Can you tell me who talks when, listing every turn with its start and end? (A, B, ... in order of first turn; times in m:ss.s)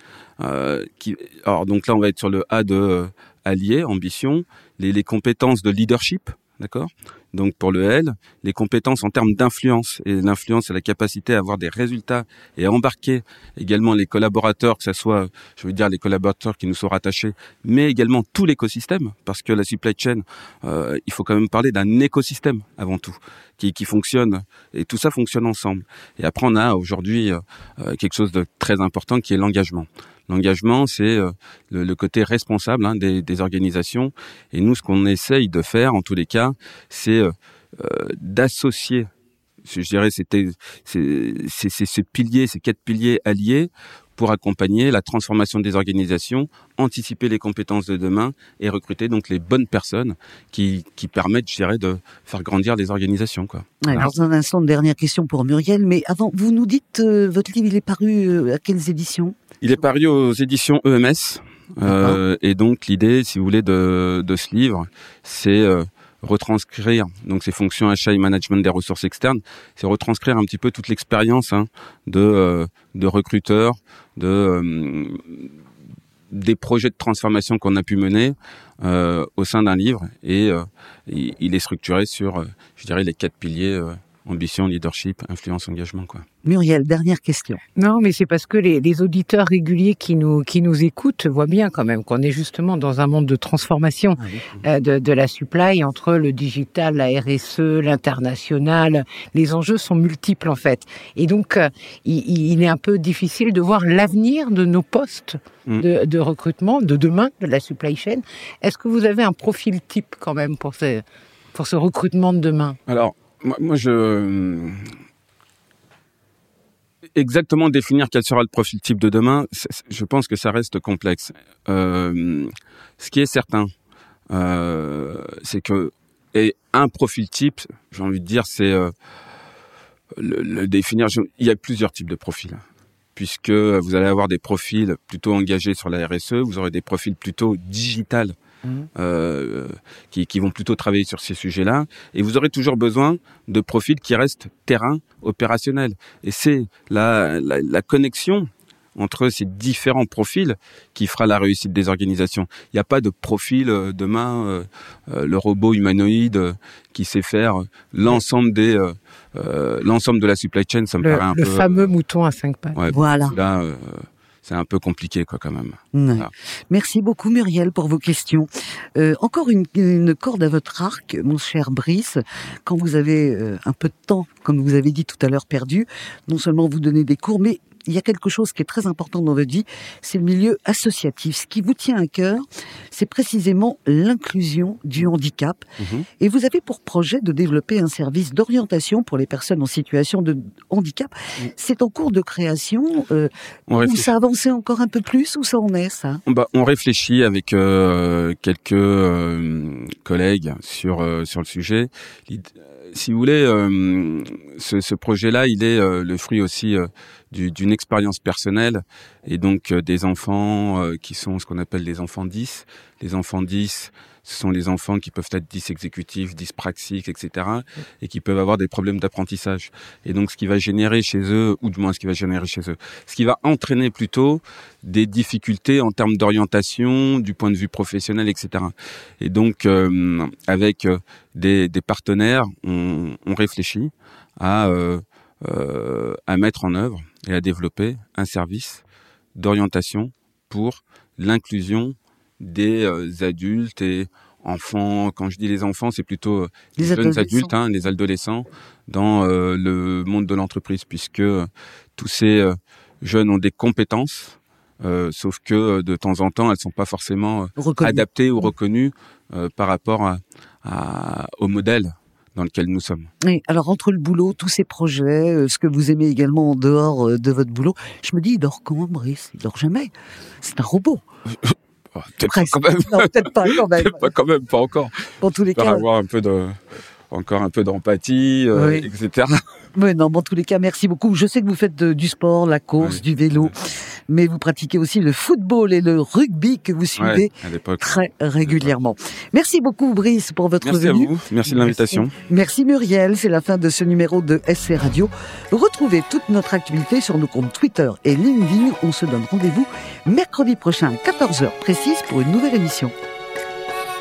0:00.4-0:39.1 A
0:39.6-0:54.0 A
0:53.8-0:59.4 B
0:59.6-1:15.5 A
1:01.8-1:02.2 B
1:16.3-1:26.2 A
1:26.4-1:27.6 B
1:27.8-1:52.8 C
1:52.9-1:54.9 A
1:57.2-2:03.7 A
2:04.3-2:08.9 A
2:10.2-2:12.6 A
2:13.2-2:18.3 A
2:19.0-2:41.9 A
2:41.0-2:42.8 C
2:42.7-2:46.3 A
2:42.9-2:43.4 B
2:45.9-3:05.6 B
3:05.8-3:06.1 A
3:06.2-3:13.3 B
3:13.7-3:14.1 A
3:13.8-3:16.2 B
3:16.2-3:58.8 A
3:59.4-4:23.1 A
4:06.8-4:07.5 B
4:17.6-4:18.4 B
4:23.2-4:31.0 B
4:31.4-4:36.6 A
4:32.2-4:34.1 B
4:35.2-4:35.8 B
4:37.1-4:39.4 A
4:38.5-4:38.9 B
4:39.7-4:43.6 B
4:42.8-4:43.5 A
4:44.1-5:02.9 B
4:47.0-4:48.7 A
4:50.6-4:52.1 A